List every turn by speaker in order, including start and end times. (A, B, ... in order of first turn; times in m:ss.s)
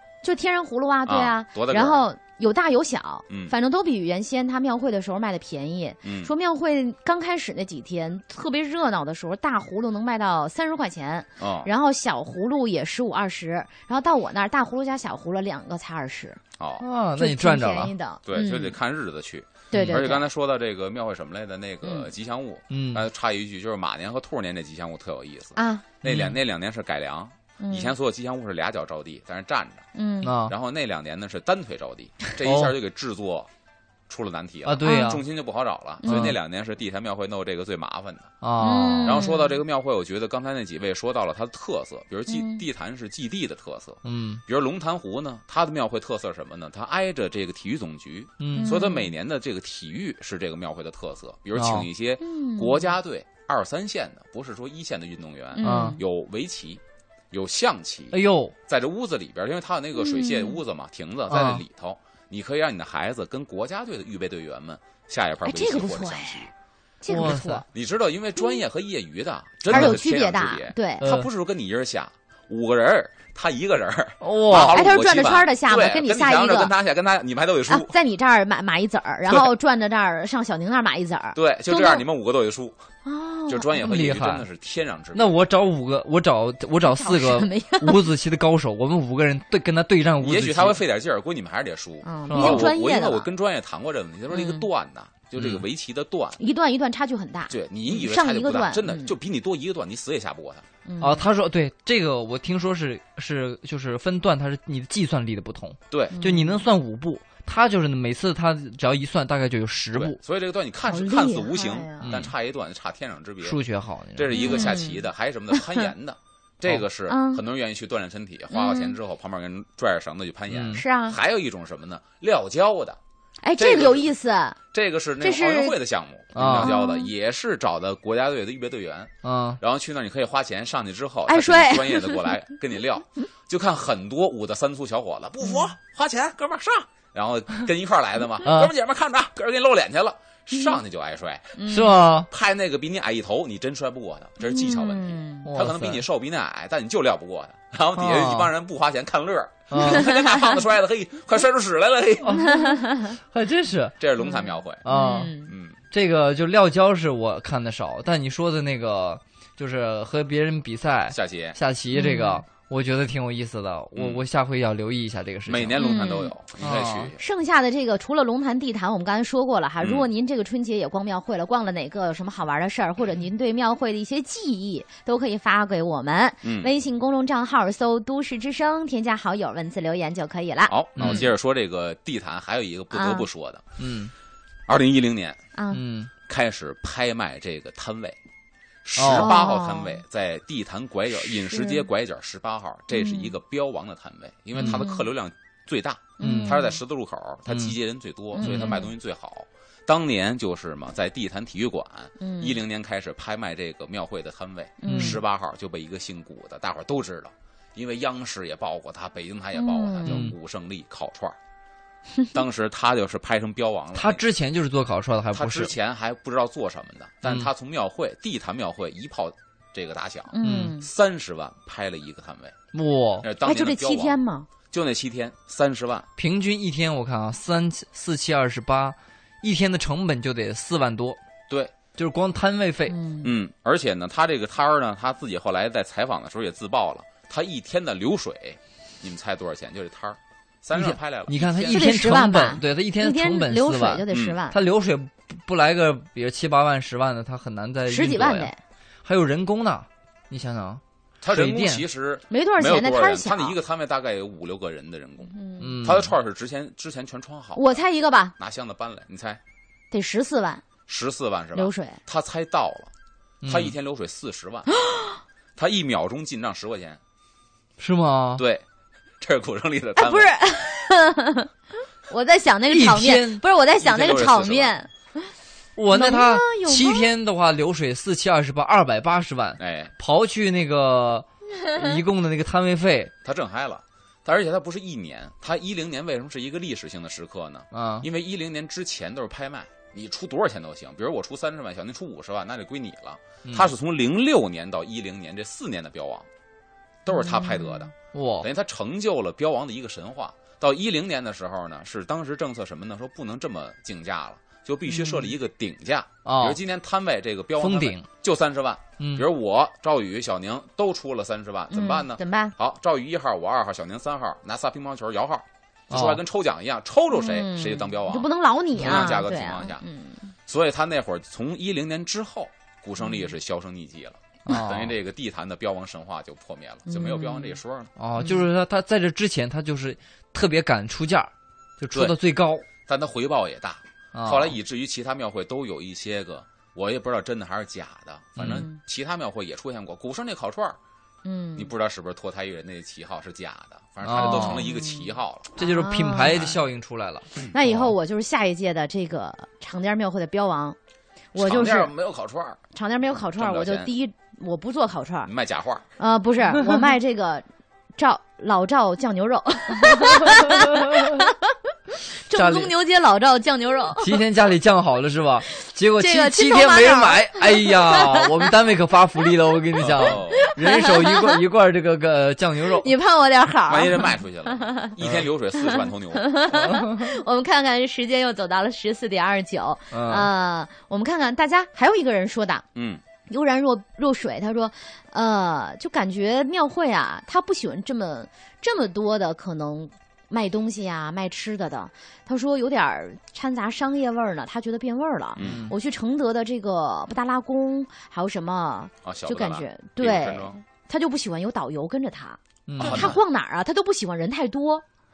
0:00.2-0:16.4 A
0:01.1-0:02.0 B
0:03.3-0:03.5 B
0:06.0-0:06.3 B
0:11.4-0:11.7 B
0:16.6-0:16.9 B
0:16.8-0:17.9 C
0:17.2-0:18.8 A
0:18.3-0:29.8 B
0:19.7-0:20.1 C
0:19.7-0:20.2 A
0:22.7-0:23.0 C
0:25.6-0:25.8 A
0:26.0-0:26.4 C
0:27.6-0:27.9 A
0:30.0-0:30.3 A
0:30.2-0:30.5 C
0:30.5-0:33.5 B
0:32.4-0:32.7 C
0:34.1-0:38.3 B
0:34.7-0:35.2 C
0:34.8-0:35.2 A
0:36.0-0:36.4 A
0:36.0-0:36.4 C
0:38.4-0:39.2 C
0:38.6-0:39.6 A
0:39.0-1:06.5 B
0:42.3-0:42.6 A
0:44.0-0:44.4 C
0:48.4-0:48.7 C
0:48.6-0:49.1 A
0:51.6-0:51.9 C
0:52.2-0:52.9 A
0:55.5-0:56.0 A
0:55.6-0:56.0 C
0:58.1-0:58.6 C
1:00.0-1:00.6 A
1:01.3-1:01.6 C
1:05.4-1:06.5 A
1:07.0-1:07.6 A
1:07.1-1:07.6 C
1:07.7-1:17.9 B
1:09.7-1:10.0 C
1:09.7-1:11.1 A
1:11.0-1:11.3 C
1:14.2-1:14.8 C
1:14.5-1:16.7 A
1:17.7-1:22.0 A
1:21.4-1:22.8 B
1:23.0-1:23.9 A
1:23.5-1:25.3 B
1:23.8-1:24.5 C
1:25.1-1:30.8 C
1:26.8-1:28.1 A
1:30.2-1:36.4 B
1:32.0-1:33.3 A
1:32.3-1:32.7 C
1:34.3-1:34.7 A
1:35.4-1:35.6 C
1:36.4-1:39.2 A
1:37.5-1:40.6 B
1:40.9-1:41.3 A
1:41.0-1:50.2 C
1:45.9-1:46.2 B
1:46.1-1:46.6 A
1:49.9-1:53.6 B
1:50.9-1:52.2 A
1:52.0-1:52.3 C
1:53.4-1:54.7 C
1:54.2-2:03.0 B
1:54.3-1:55.9 A
1:57.1-1:57.4 A
1:58.5-1:59.0 A
2:00.5-2:00.8 C
2:00.7-2:01.2 A
2:03.4-2:04.6 A
2:03.6-2:04.1 B
2:04.7-2:21.6 B
2:05.2-2:05.8 A
2:06.4-2:06.7 C
2:06.4-2:07.1 A
2:09.2-2:09.6 C
2:11.3-2:12.4 A
2:15.4-2:15.7 A
2:18.4-2:18.7 C
2:21.6-2:22.0 A
2:21.7-2:22.3 C
2:22.3-2:32.4 B
2:24.4-2:25.5 A
2:25.4-2:26.0 C
2:28.0-2:28.5 C
2:29.7-2:30.1 C
2:29.8-2:30.4 A
2:32.3-2:32.6 C
2:32.3-2:33.2 A
2:33.3-2:34.0 C
2:34.0-2:34.9 B
2:34.2-2:35.5 A
2:34.8-2:35.3 C
2:35.5-2:35.8 B
2:35.9-2:45.8 C
2:41.1-2:41.6 B
2:41.9-2:42.4 A
2:44.0-2:44.2 B
2:45.5-2:47.2 B
2:45.8-2:46.3 A
2:46.6-2:47.1 C
2:47.2-3:01.3 A
2:49.8-2:50.1 B
2:56.4-2:56.7 B
3:00.7-3:03.7 B
3:01.0-3:01.3 C
3:02.9-3:03.3 A
3:03.8-3:04.1 C
3:04.7-3:05.4 B
3:05.6-3:05.8 A
3:05.7-3:06.1 C
3:06.3-3:08.2 B
3:08.8-3:31.4 B
3:09.0-3:09.3 C
3:09.0-3:10.0 A
3:11.3-3:11.9 A
3:12.9-3:13.4 A
3:14.6-3:14.8 C
3:14.6-3:15.1 A
3:16.2-3:16.8 A
3:16.2-3:16.6 C
3:17.5-3:17.8 C
3:18.3-3:18.9 A
3:18.4-3:18.8 C
3:22.2-3:22.6 A
3:24.8-3:25.2 A
3:24.9-3:25.2 C
3:29.5-3:30.3 A
3:30.0-3:30.3 C
3:32.3-3:34.2 B
3:34.0-3:35.7 C
3:35.3-3:42.6 B
3:40.3-3:40.9 A
3:40.4-3:40.8 C
3:42.7-3:43.3 C
3:43.2-3:44.2 B
3:43.4-3:44.5 A
3:44.7-3:46.1 B
3:46.2-3:51.2 C
3:51.5-3:51.7 B
3:52.0-3:53.0 C
3:52.9-3:53.4 A
3:53.2-4:01.8 B
4:00.8-4:08.5 C
4:01.7-4:04.6 A
4:04.1-4:04.4 B
4:07.9-4:08.6 A
4:09.0-4:11.8 C
4:11.2-4:17.8 B
4:12.3-4:13.6 A
4:15.3-4:15.8 A
4:15.6-4:16.1 C
4:17.6-4:18.3 A
4:18.4-4:19.4 B
4:19.9-4:20.6 A
4:20.9-4:22.9 B
4:21.6-4:22.0 A
4:23.4-4:23.8 C
4:23.4-4:24.7 B
4:24.7-4:25.2 A
4:25.6-4:27.0 B
4:27.8-4:28.4 C
4:28.4-4:28.6 B
4:29.2-4:30.3 B
4:30.0-4:31.5 A
4:32.1-4:35.3 A
4:32.7-4:33.4 C
4:33.8-4:34.7 B
4:35.8-4:43.1 C
4:35.9-4:37.1 A
4:39.6-4:39.9 B
4:41.6-4:42.0 A
4:43.2-4:56.3 B
4:47.7-4:48.1 C
4:57.1-5:19.8 B
4:57.1-4:57.9 A
4:58.1-4:58.5 C
5:04.9-5:05.3 A
5:06.2-5:06.6 C
5:07.6-5:08.1 C
5:09.0-5:09.2 C
5:11.7-5:12.5 A
5:15.9-5:16.2 C
5:17.1-5:20.3 A
5:20.5-5:27.9 B
5:23.0-5:23.3 A
5:24.5-5:25.0 C
5:26.9-5:27.6 A
5:28.0-5:32.6 C
5:28.2-5:28.5 A
5:31.9-5:32.2 B
5:32.8-5:40.8 B
5:34.1-5:34.6 C
5:38.4-5:38.7 C
5:38.4-5:38.8 A
5:41.2-5:41.7 A
5:41.6-5:45.6 B
5:44.0-5:44.7 C
5:44.2-5:46.6 A
5:45.6-5:47.9 C
5:47.5-5:50.8 A
5:51.3-5:51.9 A
5:51.4-5:52.6 B
5:52.7-5:55.3 A
5:53.4-5:53.9 B
5:55.3-5:55.9 B
5:56.0-5:57.4 A
5:58.0-6:04.2 A
6:02.3-6:02.7 C
6:04.0-6:12.9 C
6:06.0-6:08.5 A
6:09.8-6:10.5 B
6:10.0-6:11.4 A
6:12.7-6:14.9 A
6:13.7-6:16.3 B
6:15.6-6:22.6 A
6:16.7-6:17.1 C
6:19.9-6:20.3 C
6:22.8-6:23.0 B
6:23.3-6:44.8 A
6:35.4-6:35.7 B
6:35.4-6:35.7 C
6:39.0-6:40.6 B
6:42.7-6:43.2 C
6:42.8-6:43.2 B